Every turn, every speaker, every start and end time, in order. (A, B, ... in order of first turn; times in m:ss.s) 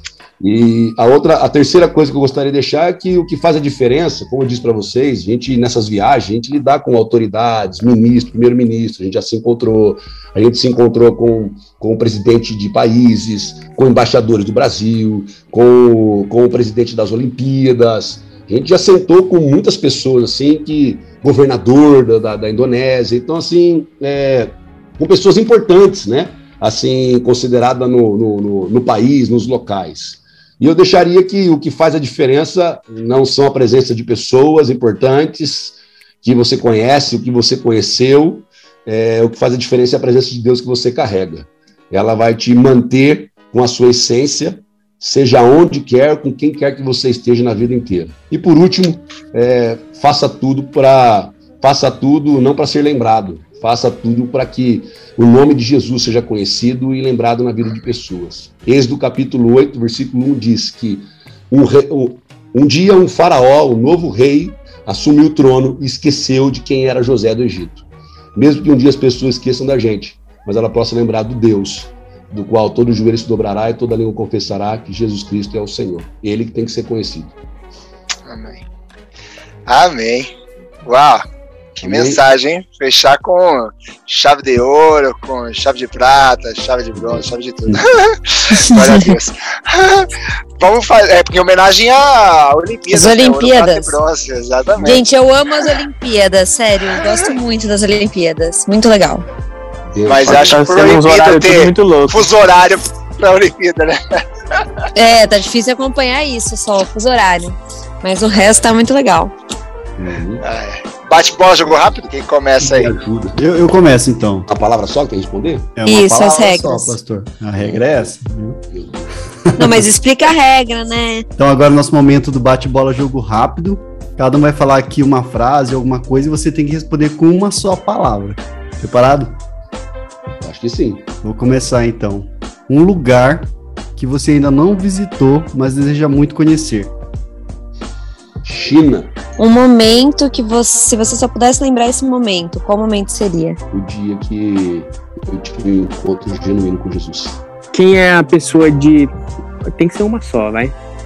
0:00.4-1:17.4 A
1:18.2-1:18.6 B
1:19.7-1:20.3 B
1:20.8-1:21.2 B
1:21.8-1:35.0 B
1:21.8-1:22.2 A
1:26.9-1:27.8 A
1:28.6-1:29.0 C
1:32.9-1:34.0 C
1:34.8-1:39.2 C
1:39.9-1:40.8 A
1:40.1-1:44.2 B
1:40.2-1:42.3 D
1:44.9-1:49.3 C
1:50.0-1:50.4 A
1:50.4-1:52.9 B
1:52.6-1:53.4 A
1:53.4-1:54.4 E
1:54.5-1:55.7 A
1:55.8-1:58.6 E
1:55.8-1:57.0 C
1:57.6-1:58.1 A
1:58.7-1:59.2 A
1:59.6-2:01.2 C
1:59.6-1:59.9 E
2:01.4-2:09.4 E
2:10.4-2:11.1 A
2:11.2-2:16.9 E
2:18.4-2:19.1 A
2:19.4-2:23.6 C
2:23.7-2:27.4 A
2:27.7-2:29.1 D
2:29.7-2:30.7 D